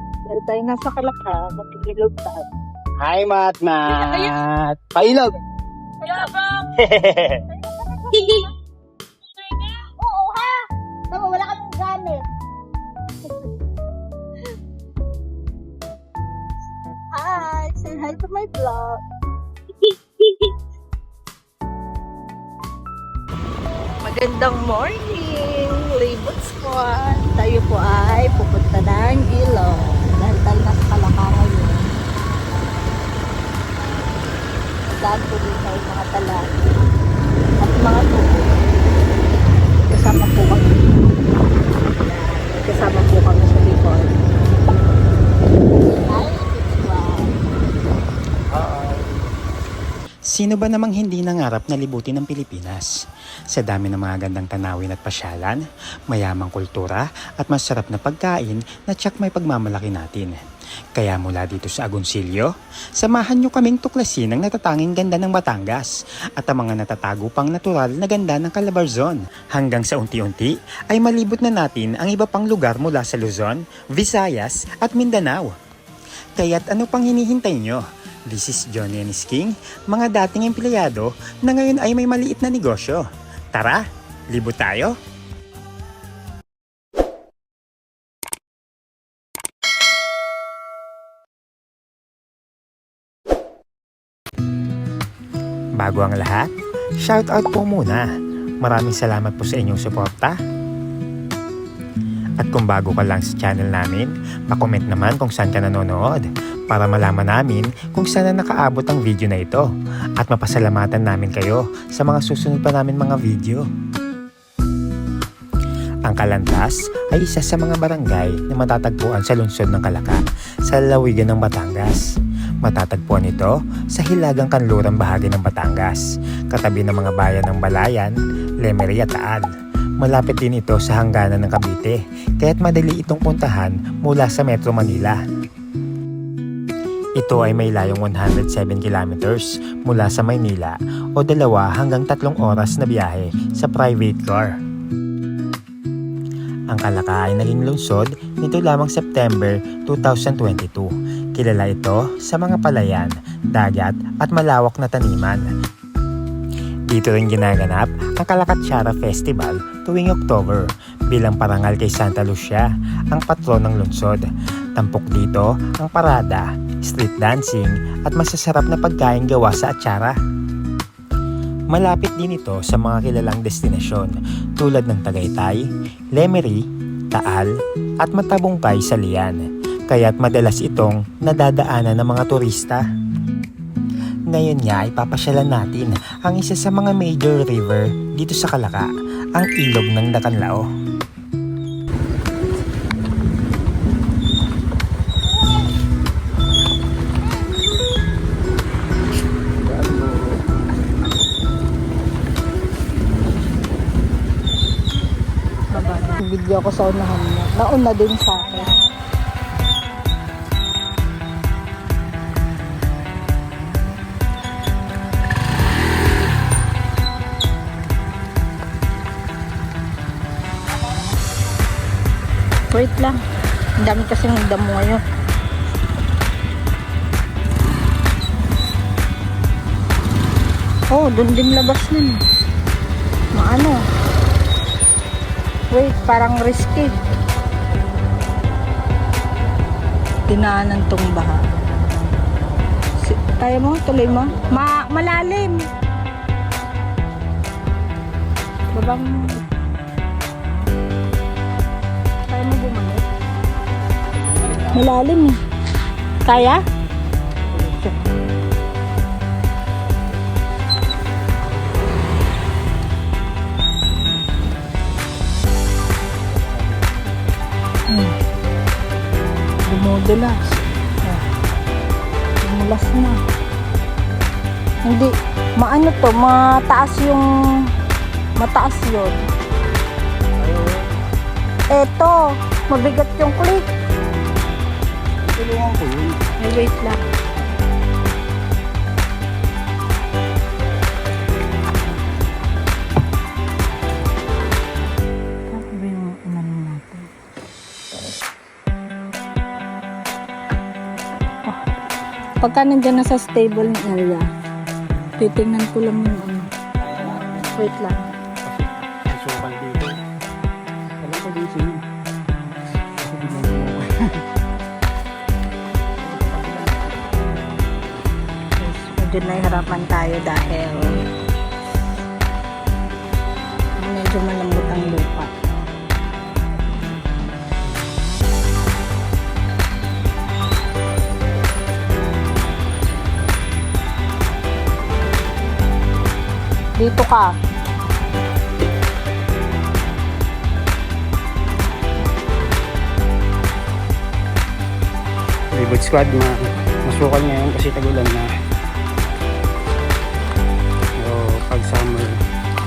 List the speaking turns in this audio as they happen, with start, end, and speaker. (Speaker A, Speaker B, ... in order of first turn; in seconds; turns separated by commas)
Speaker A: 0.3-2.4, Speaker B: 3.0-5.3, Speaker A: 6.0-6.5, Speaker B: 6.8-7.3, Speaker A: 7.9-8.4, Speaker A: 9.8-12.2, Speaker A: 17.1-19.0, Speaker A: 19.8-20.5, Speaker A: 24.0-31.8, Speaker A: 35.0-36.4, Speaker A: 37.6-38.5, Speaker A: 39.9-40.8, Speaker A: 41.9-44.1, Speaker A: 46.0-47.3, Speaker B: 48.6-49.1, Speaker C: 50.3-52.9, Speaker C: 53.5-60.4, Speaker C: 61.0-75.5, Speaker C: 76.4-84.9, Speaker C: 95.8-98.1, Speaker C: 98.6-100.4, Speaker C: 102.4-113.7, Speaker C: 116.1-122.1, Speaker C: 122.6-129.5, Speaker C: 130.0-135.2, Speaker C: 137.2-144.5, Speaker C: 146.7-155.4, Speaker C: 156.9-170.2, Speaker C: 171.7-175.6, Speaker C: 176.1-177.5, Speaker C: 178.0-182.8, Speaker C: 184.3-190.6, Speaker B: 199.8-200.0, Speaker A: 205.7-208.7, Speaker A: 222.7-223.1, Speaker A: 223.8-225.0, Speaker A: 230.9-232.2, Speaker A: 233.3-233.8, Speaker A: 235.7-236.9, Speaker A: 240.3-241.4, Speaker A: 243.0-245.6, Speaker A: 248.7-249.4, Speaker A: 252.3-253.0, Speaker B: 254.4-254.8, Speaker A: 254.7-255.3, Speaker A: 256.2-256.6, Speaker A: 269.7-270.4, Speaker A: 272.5-273.2, Speaker A: 274.9-277.2, Speaker A: 278.4-279.2, Speaker B: 280.4-280.8, Speaker A: 281.7-283.6, Speaker B: 285.3-286.2, Speaker A: 286.4-287.0, Speaker A: 295.5-297.1, Speaker A: 302.4-304.3, Speaker A: 305.2-306.5, Speaker B: 306.8-307.4, Speaker A: 307.5-308.0, Speaker B: 308.5-310.0, Speaker B: 311.0-311.8, Speaker B: 313.0-314.2, Speaker B: 316.0-317.1, Speaker A: 318.6-321.0, Speaker A: 323.8-325.3, Speaker A: 336.8-337.3, Speaker B: 345.6-348.3, Speaker B: 351.0-352.2